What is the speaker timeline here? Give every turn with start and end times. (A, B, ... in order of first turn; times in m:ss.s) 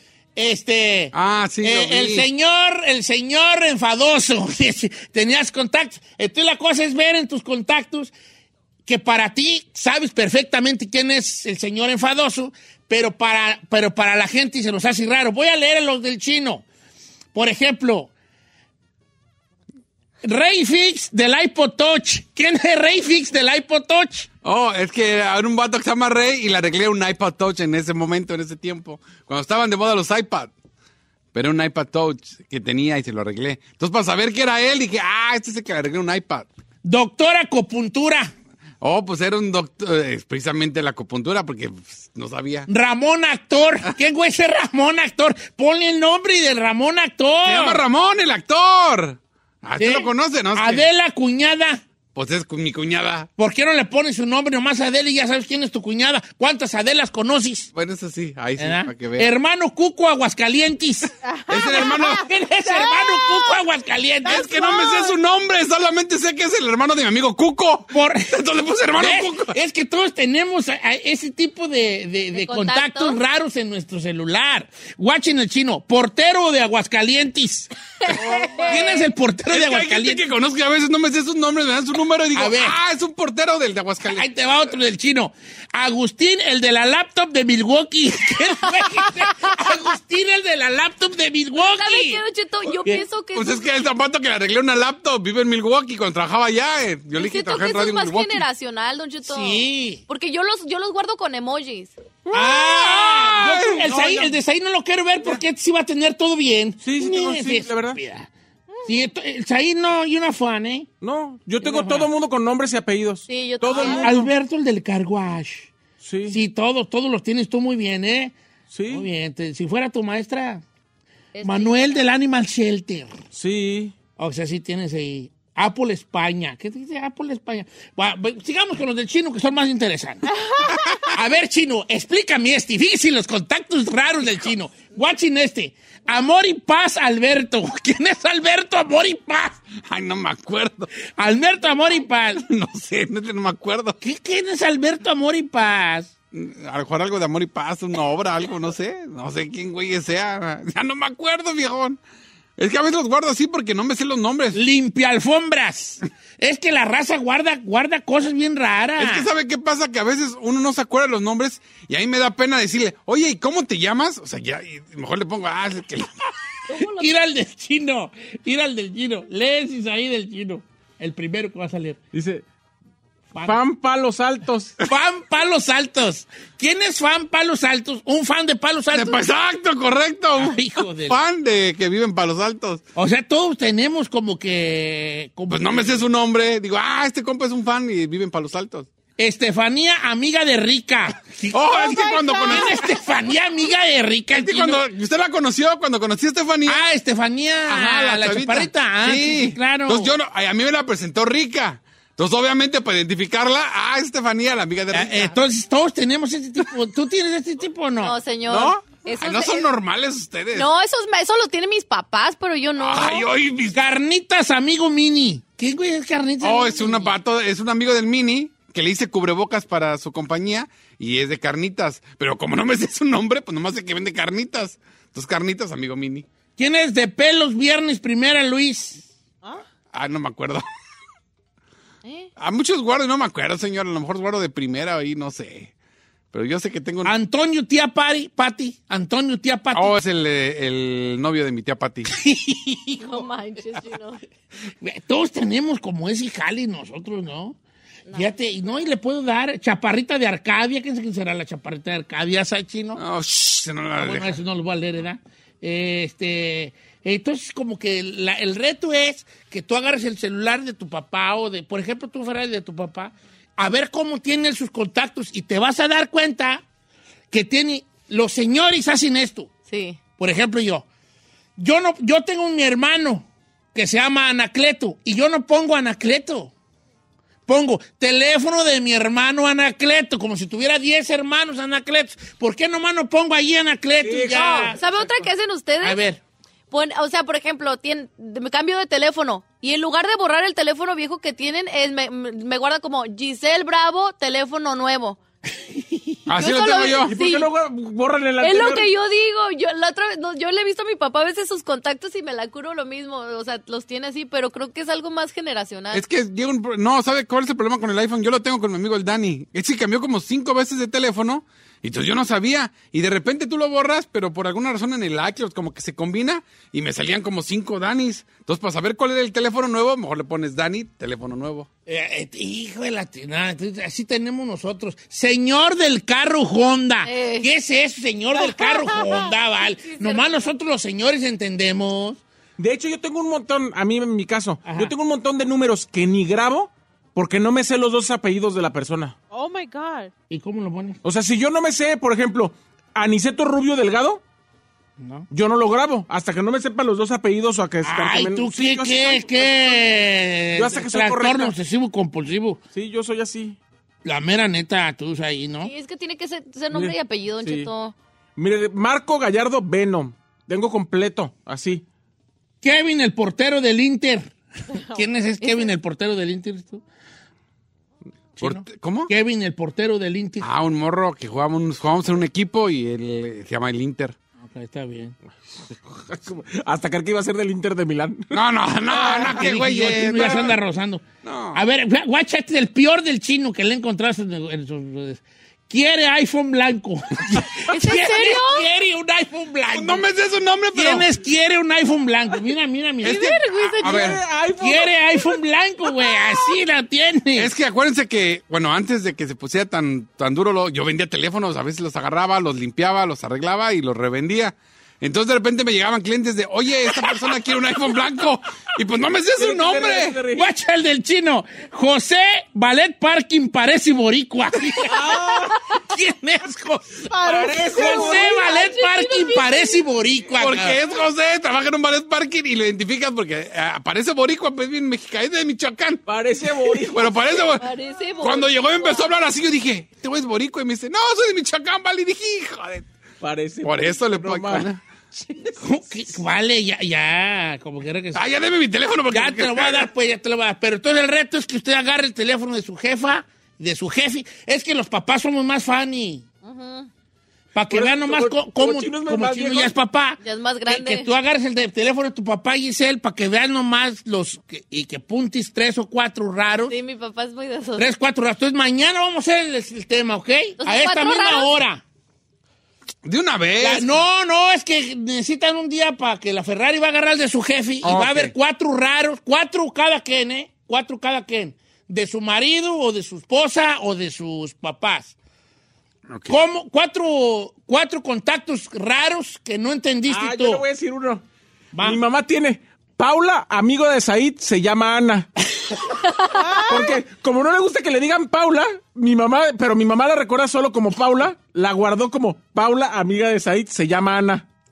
0:00.4-0:08.1 A
0:01.1-0:02.3 B
0:08.8-0:16.6 A
0:17.3-0:18.1 A
0:20.2-0:24.3 A
0:24.4-0:30.5 B
0:31.3-0:36.5 B
0:36.8-0:38.3 A
0:38.8-0:42.7 B
0:42.7-0:47.8 A
0:47.4-0:50.9 B
0:49.8-0:51.8 A
0:52.1-0:53.3 B
0:53.4-0:57.7 A
0:57.7-0:59.3 B
0:58.6-1:01.1 A
1:01.2-1:03.6 C
1:01.5-1:02.2 B
1:02.2-1:04.8 A
1:04.2-1:09.5 B
1:07.9-1:08.3 A
1:09.0-1:20.2 A
1:12.3-1:13.2 D
1:18.1-1:19.0 B
1:18.1-1:19.0 D
1:19.5-1:24.3 B
1:22.4-1:22.7 A
1:24.0-1:32.2 A
1:31.6-1:33.7 D
1:33.3-1:38.4 B
1:37.1-1:41.9 D
1:39.2-1:40.0 A
1:42.3-1:42.6 E
1:42.3-1:48.3 A
1:42.6-1:44.3 B
1:43.9-1:44.2 E
1:46.8-1:48.0 E
1:48.8-1:50.9 A
1:51.0-1:54.2 E
1:51.6-1:52.1 A
1:53.3-1:54.2 D
1:53.8-1:54.0 C
1:54.0-1:55.7 A
1:56.0-1:56.4 E
1:56.3-1:58.3 A
1:58.7-1:59.1 E
1:58.9-2:00.6 A
2:01.3-2:02.0 D
2:01.4-2:03.1 A
2:03.3-2:03.9 E
2:04.2-2:10.2 A
2:11.1-2:19.6 A
2:19.9-2:20.9 B
2:21.1-2:22.4 A
2:22.4-2:24.0 B
2:24.0-2:26.1 A
2:26.3-2:32.0 B
2:32.6-2:34.6 B
2:34.5-2:39.3 A
2:39.0-2:46.1 B
2:46.7-2:47.2 D
2:46.8-2:52.0 A
2:52.1-2:52.4 E
2:53.3-2:53.6 A
2:53.4-2:54.7 E
2:54.8-2:59.2 A
2:58.9-3:02.8 B
3:00.4-3:01.2 A
3:03.0-3:06.0 A
3:05.5-3:08.9 B
3:09.2-3:14.8 A
3:11.5-3:12.9 B
3:14.3-3:16.9 B
3:16.6-3:20.1 A
3:17.7-3:25.3 B
3:24.9-3:28.2 A
3:28.0-3:29.7 D
3:28.5-3:30.7 B
3:30.5-3:33.2 D
3:32.8-3:33.8 B
3:33.7-3:37.1 A
3:36.4-3:46.2 B
3:46.6-3:49.0 A
3:49.9-3:50.6 B
3:52.4-3:55.7 B
3:56.3-3:57.1 B
3:57.0-3:59.9 A
3:59.7-4:02.1 B
4:02.1-4:03.3 A
4:03.0-4:04.2 D
4:04.8-4:07.6 A
4:08.1-4:13.0 A
4:13.0-4:14.4 B
4:14.0-4:26.6 A
4:27.3-4:29.5 A
4:29.7-4:30.0 D
4:30.2-4:30.8 A
4:31.6-4:36.5 A
4:37.5-4:44.8 A
4:44.0-4:45.1 E
4:44.3-4:46.0 D
4:45.8-4:46.2 A
4:46.7-4:55.2 D
4:55.7-4:56.2 A
4:56.3-4:57.1 B
4:56.4-4:57.5 D
4:57.0-4:58.9 E
4:58.4-5:06.0 D
5:05.9-5:21.7 B
5:21.9-5:32.2 A
5:27.0-5:27.5 D
5:28.8-5:29.1 C
5:29.6-5:30.5 D
5:32.6-5:39.1 E
5:34.6-5:34.9 A
5:39.3-5:40.1 C
5:40.3-5:41.0 A
5:41.0-5:44.2 E
5:45.0-5:45.3 A
5:45.3-5:50.0 E
5:47.8-5:52.6 A
5:50.5-5:51.5 E
5:52.7-5:53.6 E
5:54.0-5:55.7 A
5:55.6-5:57.9 D
5:56.7-5:57.7 E
5:58.4-6:01.8 E
6:02.6-6:04.3 A
6:04.9-6:06.8 A
6:08.4-6:10.5 A
6:08.4-6:09.1 B
6:10.4-6:14.2 B
6:14.4-6:15.1 A
6:15.9-6:18.4 E
6:18.3-6:20.6 B
6:18.9-6:30.0 A
6:21.2-6:21.6 B
6:27.7-6:28.6 D
6:29.7-6:31.1 B
6:30.7-6:33.4 A
6:33.0-6:34.2 B
6:33.0-6:34.2 D
6:33.8-6:35.0 E
6:34.6-6:37.5 A
6:37.4-6:50.2 B
6:49.4-6:50.5 E
6:50.3-6:55.2 A
6:54.9-6:55.5 E
6:55.7-7:00.8 A
6:57.1-6:58.2 C
6:57.2-6:58.3 E
6:57.8-6:59.8 D
7:00.4-7:06.0 B
7:06.0-7:07.2 E
7:06.6-7:07.7 B
7:07.3-7:09.1 D
7:08.2-7:12.9 B
7:13.2-7:14.7 E
7:13.6-7:14.8 B
7:15.2-7:15.5 E
7:15.6-7:18.2 A
7:18.1-7:19.9 B
7:19.1-7:26.2 A
7:26.4-7:26.9 D
7:27.5-7:36.7 A
7:27.7-7:29.7 E
7:30.2-7:31.1 D
7:36.7-7:37.9 D
7:37.8-7:41.8 A
7:40.6-7:41.5 D
7:43.0-7:44.0 B
7:43.6-7:55.1 A
7:47.8-7:48.3 B
7:56.1-7:56.4 B
7:56.3-8:00.6 A
8:00.1-8:01.2 E
8:01.7-8:02.0 A
8:01.8-8:05.3 E
8:06.3-8:07.0 C
8:06.7-8:14.4 E